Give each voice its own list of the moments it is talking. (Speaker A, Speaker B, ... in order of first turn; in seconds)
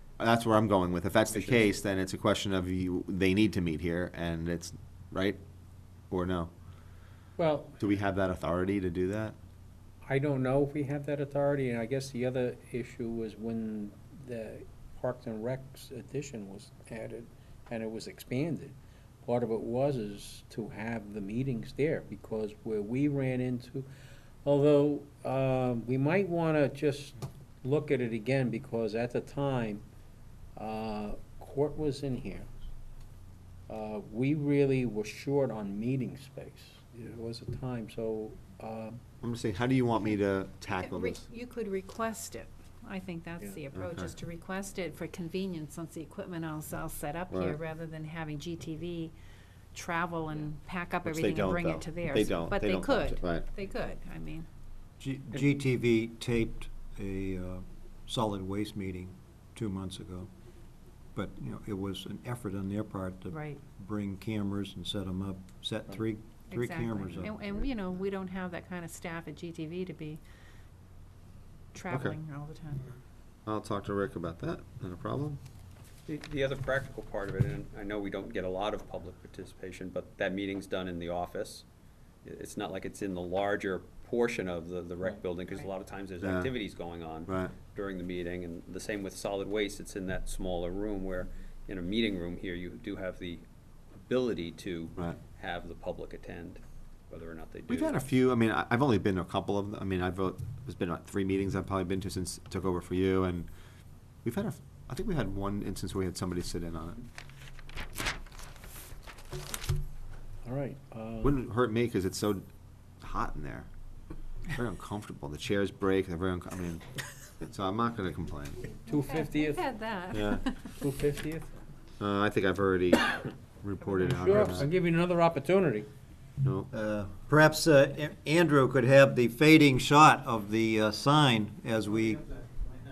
Speaker A: 0.2-5.4, 6.1-6.5, 7.8-9.3, 39.2-41.2, 43.8-44.1, 47.3-47.6, 51.0-53.5, 71.9-72.2, 73.5-75.4, 86.2-86.5, 87.3-87.5, 97.7-103.5, 104.2-107.0, 111.2-112.4, 113.0-113.7, 114.5-116.8, 117.4-118.7, 120.1-120.4, 122.0-124.7, 126.4-126.7
Speaker B: 1.3-1.7, 76.1-81.7, 82.2-98.0
Speaker C: 7.4-7.8, 10.0-23.9, 24.4-29.8, 30.6-32.5, 33.7-39.0, 110.4-111.4, 118.8-119.7, 120.8-121.5, 124.0-125.9
Speaker D: 40.8-49.1, 49.7-54.5, 63.3-63.6, 66.5-70.2, 71.7-72.9, 118.8-120.8
Speaker E: 55.0-60.3, 61.1-67.4, 126.7-132.2